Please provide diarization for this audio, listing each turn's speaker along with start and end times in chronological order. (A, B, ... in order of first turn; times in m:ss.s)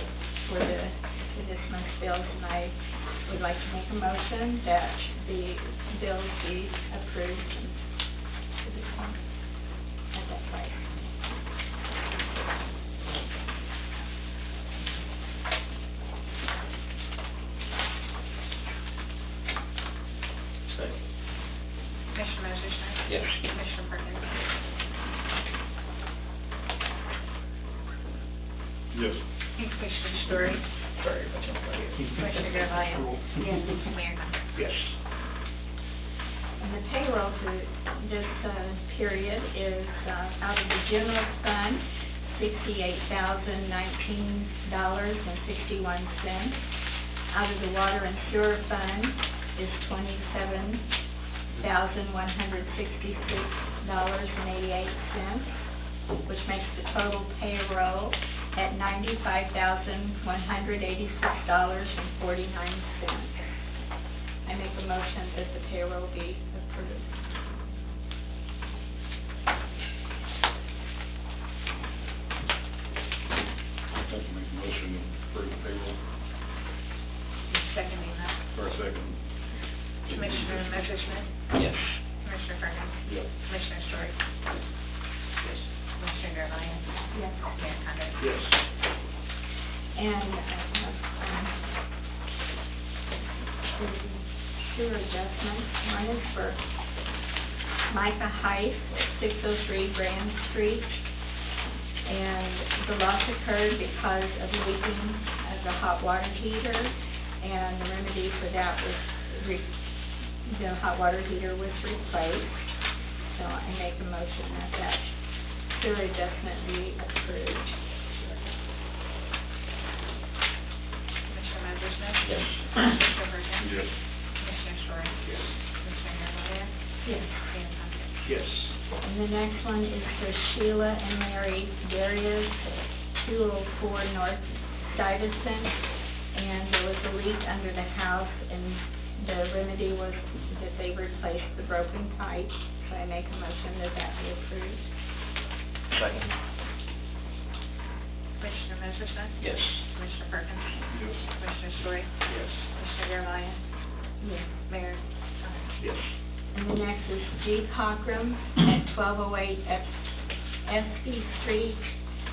0:00.4-0:07.8 A
0:08.6-0:09.2 A
0:10.1-0:10.9 A
0:20.7-0:21.0 B
0:22.1-0:24.4 C
0:23.0-0:23.4 B
0:28.9-0:29.2 D
0:29.6-0:30.6 C
0:31.0-0:32.4 B
0:32.1-0:34.4 C
0:36.6-0:46.6 A
0:47.3-0:50.9 A
0:51.6-0:55.5 A
0:56.2-1:03.4 A
1:04.4-1:07.2 A
1:14.0-1:16.0 D
1:17.5-1:18.4 C
1:18.5-1:19.2 D
1:20.1-1:21.3 C
1:21.5-1:21.9 B
1:22.2-1:24.2 C
1:26.0-1:28.2 C
1:27.1-1:27.5 A
1:29.9-1:31.6 A
1:33.8-1:36.6 A
1:37.9-1:41.0 A
1:42.0-1:49.7 A
1:50.4-1:52.6 A
1:53.3-1:55.0 A
1:55.7-1:58.5 A
2:01.3-2:03.8 C
2:02.2-2:02.9 B
2:03.6-2:03.9 D
2:04.4-2:05.2 C
2:05.8-2:06.7 C
2:07.0-2:07.4 A
2:07.4-2:08.1 C
2:08.2-2:08.7 B
2:09.0-2:15.8 A
2:16.3-2:24.9 A
2:25.9-2:26.3 B
2:28.4-2:33.6 C
2:29.4-2:29.8 B
2:30.9-2:31.2 D
2:32.2-2:32.5 B
2:34.2-2:34.5 A
2:34.6-2:35.6 C
2:36.5-2:39.9 A
2:40.6-2:41.8 A